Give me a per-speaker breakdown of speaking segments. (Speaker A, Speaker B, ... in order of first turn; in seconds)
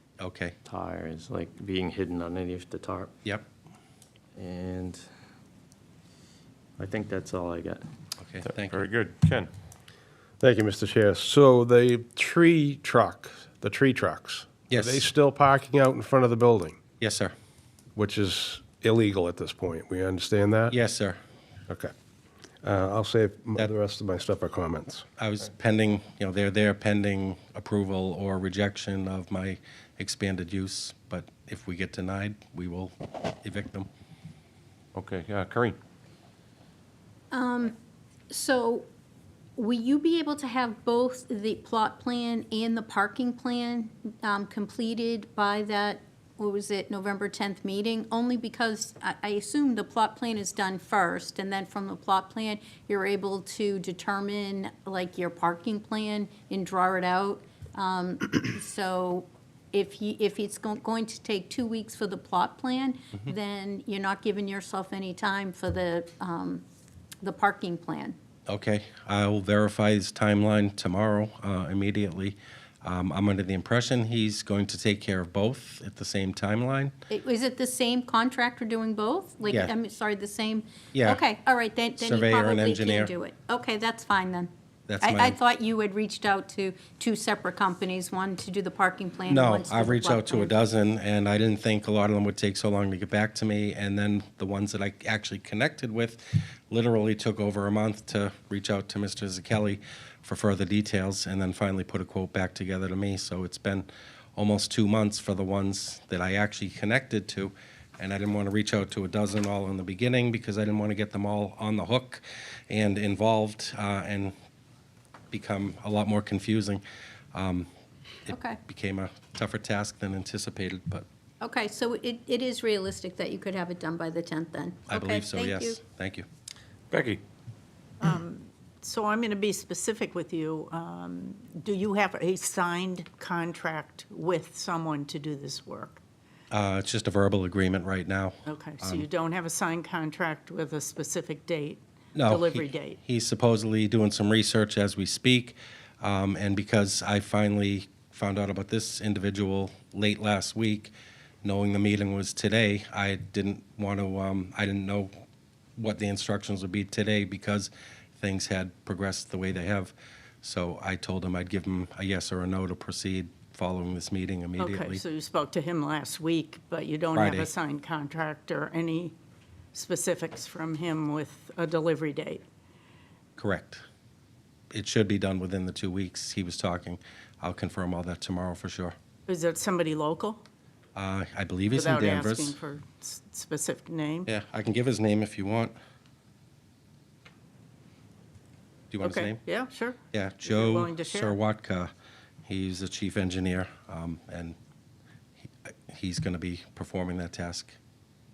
Speaker A: 0.2-0.5, 8.2-8.8, 14.7-15.0, 17.0-17.3, 20.7-21.2, 25.2-33.9, 68.5-76.9, 80.9-81.2, 82.0-83.1, 84.9-85.3, 89.3-114.3, 115.3-116.8, 117.3-117.7, 118.3-121.0, 124.9-126.2, 136.5-139.1, 142.1-150.9, 151.4-155.1, 155.8-165.0, 167.1-167.5, 173.4-173.8, 174.7-178.9, 180.9-182.6, 184.2-185.7, 188.9-189.4, 190.1-191.9, 192.5-194.6, 195.4-197.8
Speaker B: 0.7-3.1, 4.3-5.0, 6.8-7.8
Speaker C: 8.4-9.5, 34.9-35.8, 126.9-127.2
Speaker D: 10.4-16.8, 17.9-20.7, 22.6-25.0
Speaker E: 37.3-37.7, 38.3-38.9, 39.6-66.6, 67.2-68.2, 77.1-84.5, 85.0-90.5, 118.3-118.6, 121.4-125.8
Speaker F: 128.0-136.0, 138.4-143.0, 164.6-169.1, 169.7-172.4, 179.3-180.4, 181.7-184.3, 189.0-191.4